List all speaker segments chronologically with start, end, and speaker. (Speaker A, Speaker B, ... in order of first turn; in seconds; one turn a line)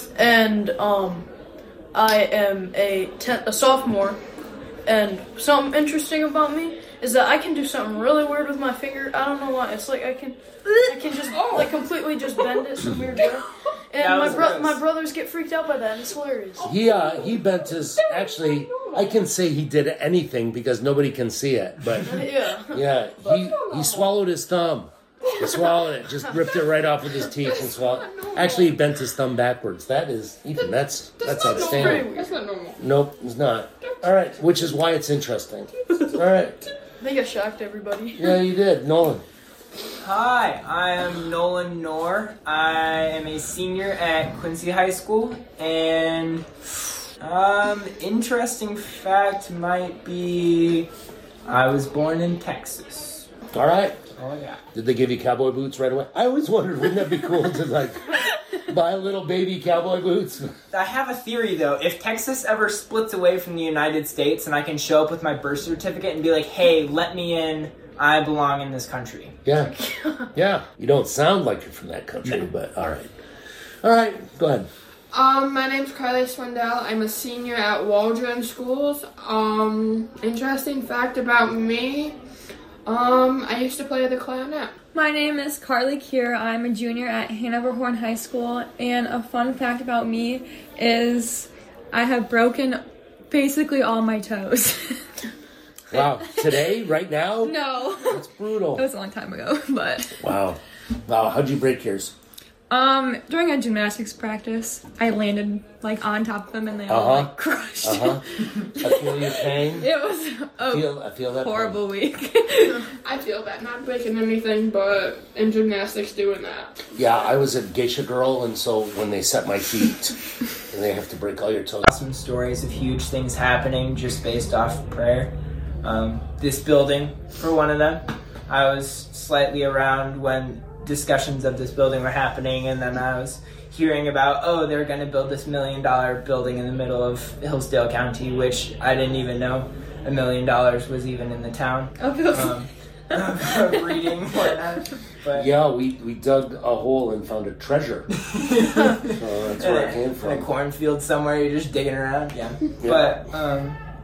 Speaker A: 0.2-1.3
Speaker A: 1.9-4.2
Speaker A: 4.9-16.8
Speaker B: 14.0-14.8
Speaker C: 16.6-22.2
Speaker D: 16.9-17.4
Speaker D: 18.3-19.1
Speaker A: 22.1-22.8
Speaker C: 22.7-32.1
Speaker A: 25.4-25.8
Speaker D: 27.5-28.7
Speaker D: 31.2-32.8
Speaker A: 31.8-32.3
Speaker C: 32.8-36.6
Speaker A: 37.0-38.4
Speaker C: 38.1-39.2
Speaker B: 40.0-46.7
Speaker B: 47.2-50.9
Speaker B: 51.5-53.3
Speaker C: 53.5-54.0
Speaker B: 54.1-54.6
Speaker C: 54.7-60.5
Speaker B: 60.7-69.3
Speaker C: 69.5-69.8
Speaker A: 69.7-70.3
Speaker C: 70.3-73.1
Speaker C: 73.8-74.7
Speaker D: 75.1-82.2
Speaker D: 82.9-84.7
Speaker E: 84.9-95.0
Speaker C: 95.9-98.8
Speaker E: 97.4-98.2
Speaker E: 98.8-100.2
Speaker C: 100.2-102.1
Speaker E: 102.7-113.0
Speaker C: 106.9-108.2
Speaker C: 108.8-109.9
Speaker C: 110.7-111.8
Speaker D: 113.1-116.7
Speaker C: 116.9-121.8
Speaker B: 121.8-125.3
Speaker B: 125.8-145.5
Speaker E: 142.0-142.6
Speaker C: 145.3-148.1
Speaker B: 148.5-153.8
Speaker C: 149.0-150.5